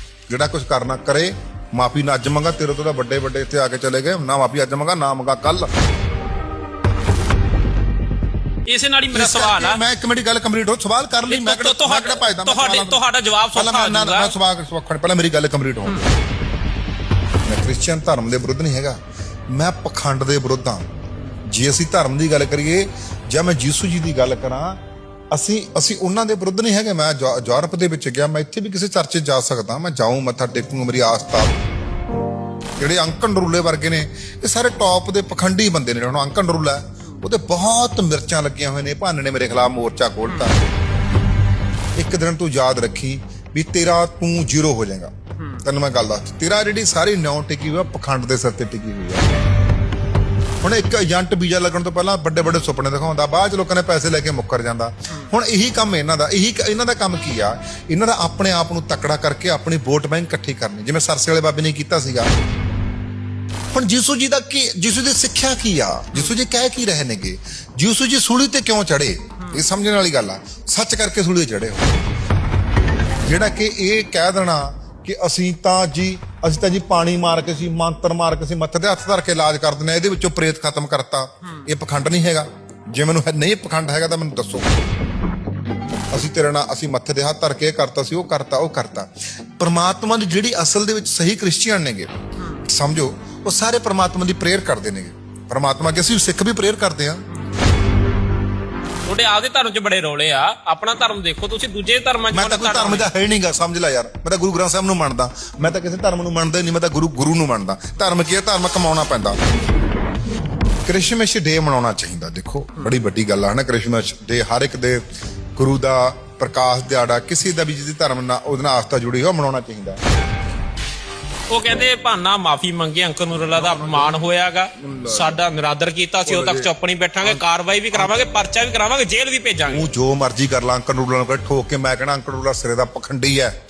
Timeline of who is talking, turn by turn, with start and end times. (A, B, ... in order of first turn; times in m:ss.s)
0:00.3-0:05.7 A
0:08.6-0:09.8 B
0:09.1-0:13.0 A
0:11.3-0:14.3 B
0:13.5-0:16.1 A
0:17.4-0:20.9 A
0:21.5-0:24.8 A
0:25.3-0:31.5 A
0:32.8-0:40.6 A
0:42.0-0:45.1 A
0:45.6-0:49.3 A
0:50.6-1:02.3 A
1:03.7-1:12.0 A
1:13.2-1:24.7 A
1:26.1-1:32.1 A
1:32.7-1:37.2 A
1:39.0-1:43.1 B
1:42.3-1:49.4 A
1:50.8-1:55.0 A
1:55.6-2:00.0 A
2:01.5-2:09.8 B
2:03.5-2:05.4 A
2:06.2-2:06.7 A
2:07.2-2:08.2 A
2:09.7-2:13.5 A